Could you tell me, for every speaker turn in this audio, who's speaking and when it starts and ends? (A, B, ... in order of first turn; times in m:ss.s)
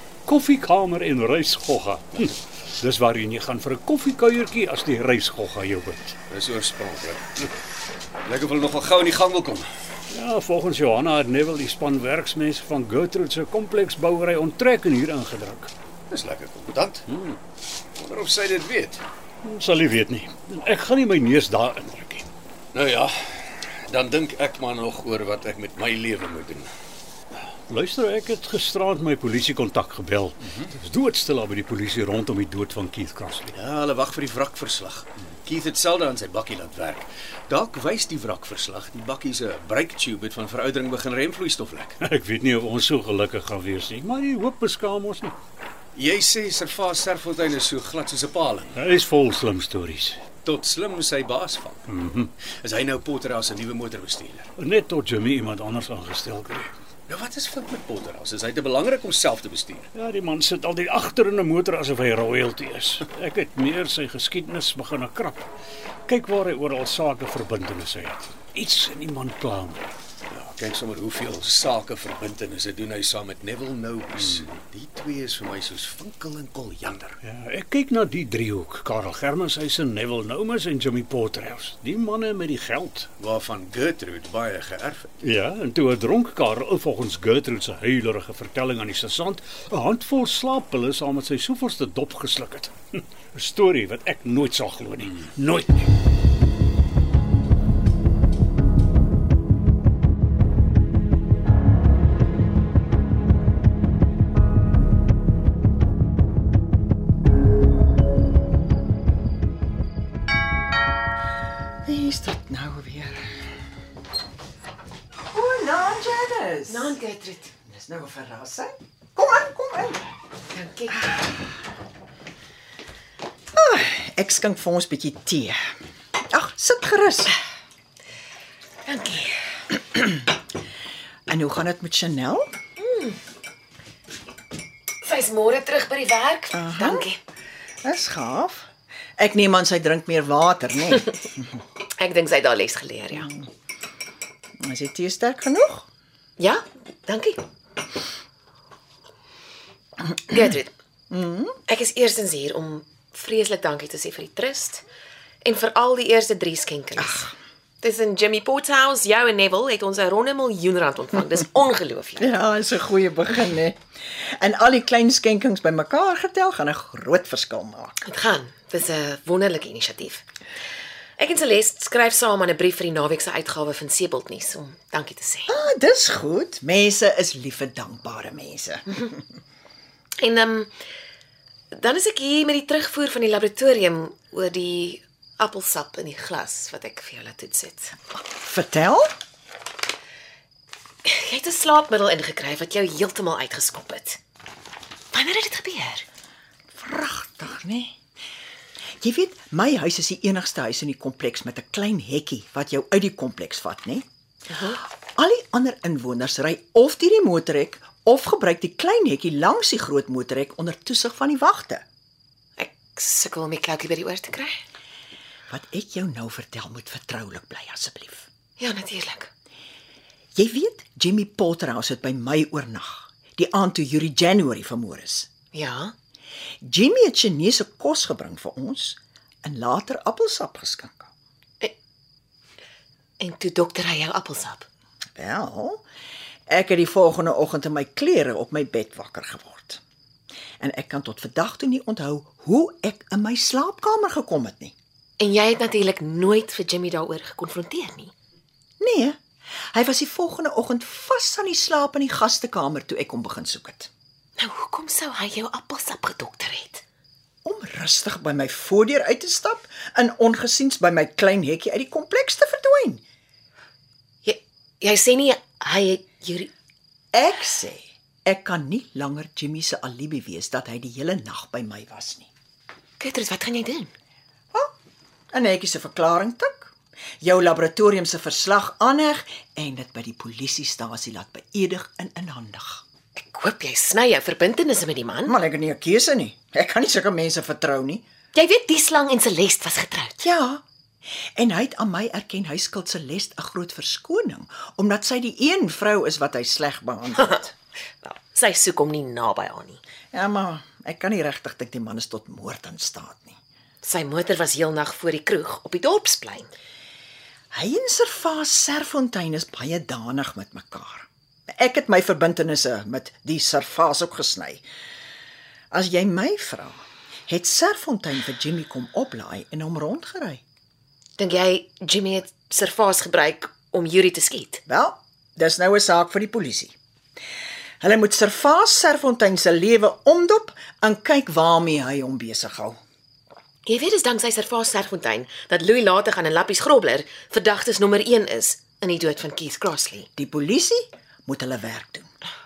0:00.3-0:06.2 A
0:06.3-0:07.5 B
0:08.2-0:09.7 B
0:10.1-0:15.7 A
0:16.1-0:17.1 B
0:17.1-0:17.4 A
0:18.0-0:19.0 B
0:19.4-0:22.3 A
0:22.7-0:26.7 B
0:27.7-0:33.5 A
0:33.5-0:42.0 B
0:42.0-0:45.4 A
0:46.0-0:48.8 B
0:48.8-0:50.2 A
0:50.4-0:54.5 B
0:51.9-0:52.3 A
0:54.6-0:56.7 A
0:57.1-0:59.9 B
0:59.9-1:05.5 A
1:06.1-1:09.9 A
1:10.3-1:17.2 B
1:17.2-1:23.1 A
1:23.2-1:25.1 B
1:25.2-1:35.9 A
1:51.8-1:53.3 C
1:55.3-1:57.0 C
1:56.7-1:57.5 D
1:57.6-2:00.0 C
2:00.5-2:01.2 D
2:03.6-2:05.6 C
2:06.2-2:07.4 C
2:08.9-2:09.4 D
2:11.3-2:12.5 C
2:12.8-2:13.2 D
2:15.0-2:17.2 D
2:16.5-2:17.1 C
2:17.8-2:21.3 C
2:22.0-2:23.3 D
2:24.6-2:25.9 C
2:26.4-2:27.4 D
2:30.1-2:30.7 D
2:31.1-2:31.6 C
2:31.7-2:34.8 D
2:35.4-2:37.2 D
2:37.0-2:37.3 C
2:37.8-2:42.3 D
2:42.2-2:48.0 C
2:48.0-2:50.2 D
2:51.2-2:55.5 D
2:55.5-2:59.1 C
3:00.2-3:00.7 D
3:01.7-3:08.0 D
3:08.2-3:09.1 C
3:11.0-3:14.2 D
3:15.1-3:16.1 D
3:16.8-3:17.9 C
3:19.0-3:24.1 C
3:24.5-3:24.8 D
3:25.0-3:31.8 C
3:32.6-3:34.6 D
3:35.5-3:38.3 C
3:38.6-3:39.3 D
3:40.4-3:45.3 C
3:45.5-3:45.9 D
3:46.6-3:51.1 C
3:53.2-3:54.7 D
3:55.2-3:55.8 C
3:56.5-3:59.8 C
4:00.6-4:04.7 C
4:05.2-4:08.1 D
4:08.8-4:09.2 C
4:09.7-4:13.9 C
4:14.4-4:16.8 D
4:17.4-4:23.0 C
4:24.2-4:26.5 D
4:27.1-4:32.3 C
4:33.0-4:33.9 D
4:35.3-4:42.8 C
4:43.2-4:45.3 D
4:45.3-4:48.0 C
4:48.3-4:50.2 D
4:50.2-4:50.6 C
4:51.4-4:57.5 C
4:58.0-4:59.8 D
5:00.1-5:03.4 C
5:03.8-5:06.5 D
5:07.5-5:14.6 C
5:15.7-5:20.4 C
5:21.2-5:24.6 D
5:24.7-5:26.7 C
5:27.8-5:32.8 C
5:33.7-5:40.1 D
5:40.2-5:42.1 C